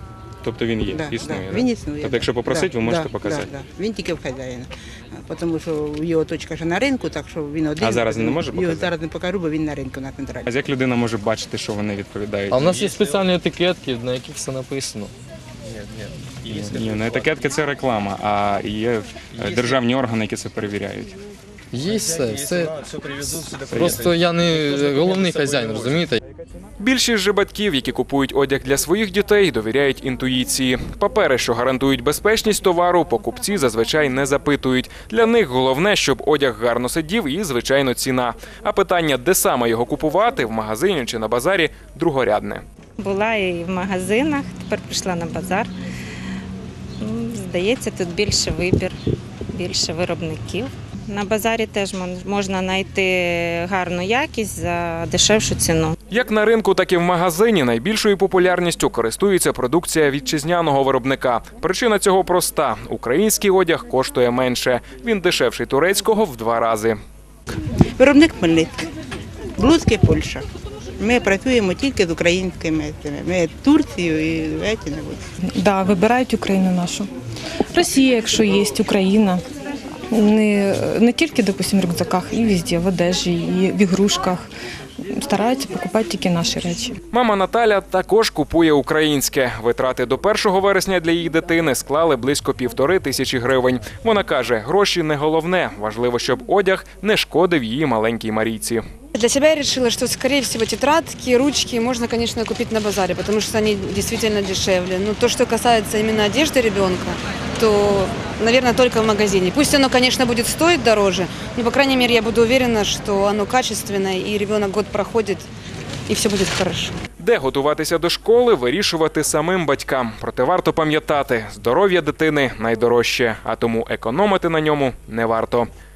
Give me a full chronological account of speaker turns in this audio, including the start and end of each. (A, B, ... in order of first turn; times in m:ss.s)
0:00.4-0:03.5 A
0:00.8-0:10.5 B
0:07.8-0:08.9 A
0:10.5-0:12.9 A
0:12.5-0:15.1 C
0:16.5-0:21.1 A
0:21.7-0:26.2 C
0:23.7-0:24.1 A
0:26.8-0:42.6 D
0:43.0-0:45.7 E
0:47.0-0:48.9 E
0:49.5-0:55.9 E
0:56.1-1:07.0 D
1:08.0-1:08.9 B
1:09.6-1:10.4 B
1:11.0-1:15.2 B
1:15.5-1:17.1 F
1:17.7-1:19.4 F
1:20.1-1:24.5 F
1:25.1-1:27.0 F
1:27.1-1:38.8 D
1:39.1-1:55.5 G
1:56.1-1:57.0 G
1:57.2-2:05.7 D